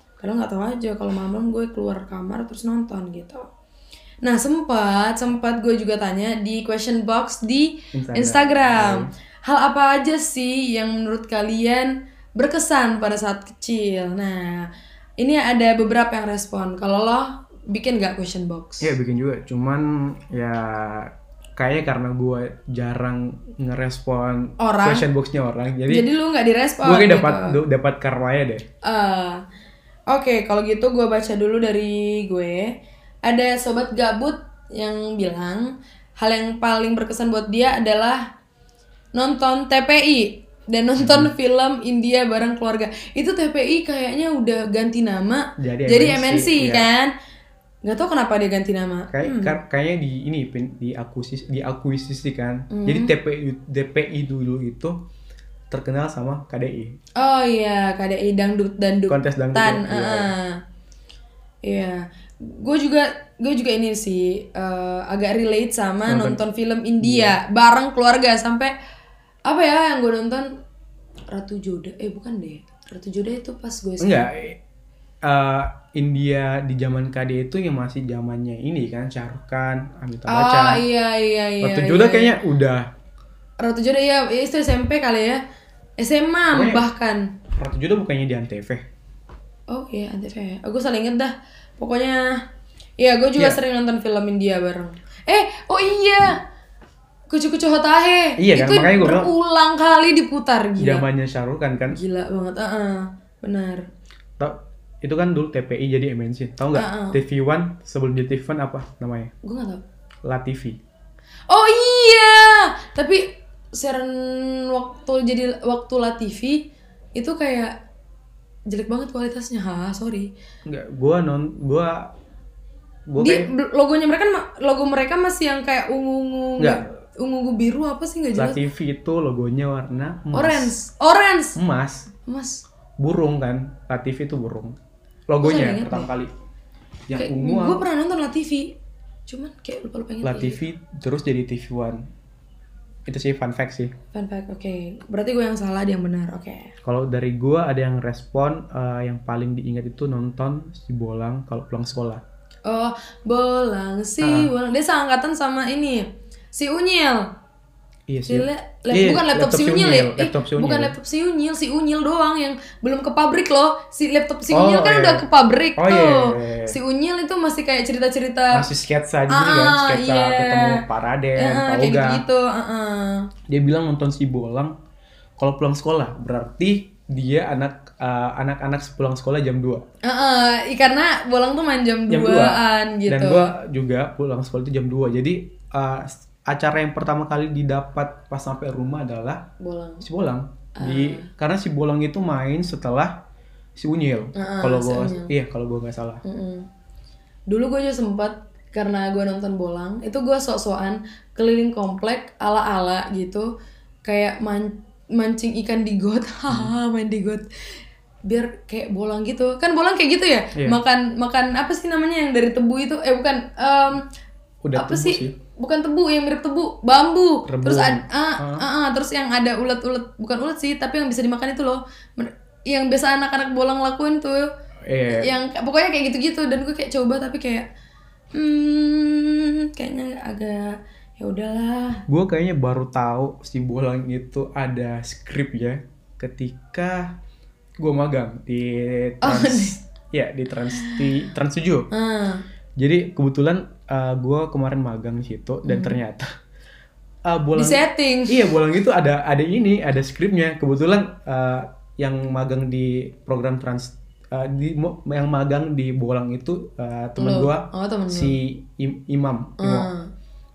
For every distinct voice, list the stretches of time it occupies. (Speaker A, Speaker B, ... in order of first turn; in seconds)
Speaker A: 0.2-3.5, 4.2-18.9, 24.6-25.1, 25.9-27.6, 28.8-29.4, 30.1-38.3, 39.1-47.1, 47.8-49.6, 52.7-53.1, 57.2-60.6, 61.6-68.7, 69.5-70.5, 71.3-74.3, 80.3-82.3, 83.6-85.4, 86.0-87.3, 89.7-92.4, 93.0-96.4, 97.3-101.0, 101.9-103.9, 106.7-107.2, 109.4-109.8, 111.5-116.6, 117.2-117.8, 118.7-120.3, 123.2-128.6, 130.3-131.6, 132.2-132.6, 135.4-136.1, 137.2-138.8, 139.3-140.6, 144.1-146.7, 152.7-157.3, 158.3-168.7, 169.3-170.8, 171.4-173.3, 180.0-183.5, 189.6-190.1, 190.8-191.3, 194.3-195.3, 196.2-196.7, 197.5-203.5, 204.1-207.4, 208.2-214.0, 214.8-224.5, 225.1-227.7, 228.3-232.0, 239.2-239.8, 240.7-241.1, 241.9-242.4, 245.7-246.0, 247.6-248.5, 257.2-258.4, 259.6-260.1
Speaker B: 7.9-9.1, 18.8-26.1, 26.8-28.6, 41.0-41.3, 45.6-46.9, 49.1-55.0, 55.7-57.0, 59.1-60.3, 66.1-66.4, 67.0-67.4, 74.0-74.6, 75.2-80.8, 81.6-82.9, 86.5-86.9, 87.5-88.8, 98.4-99.3, 100.8-102.0, 104.4-109.3, 110.2-110.8, 120.7-122.1, 123.1-123.5, 126.6-126.8, 128.3-130.7, 131.6-132.1, 133.0-134.8, 135.3-136.4, 137.1-137.8, 140.2-142.1, 143.1-143.9, 146.8-152.2, 154.2-154.5, 158.1-160.9, 164.5-165.3, 165.8-166.8, 168.5-172.2, 173.5-174.7, 175.4-179.8, 182.1-189.4, 190.0-193.2, 193.8-196.2, 214.6-215.3, 217.5-218.7, 224.9-225.3, 232.1-237.2, 237.8-241.9, 242.8-246.3, 247.2-259.9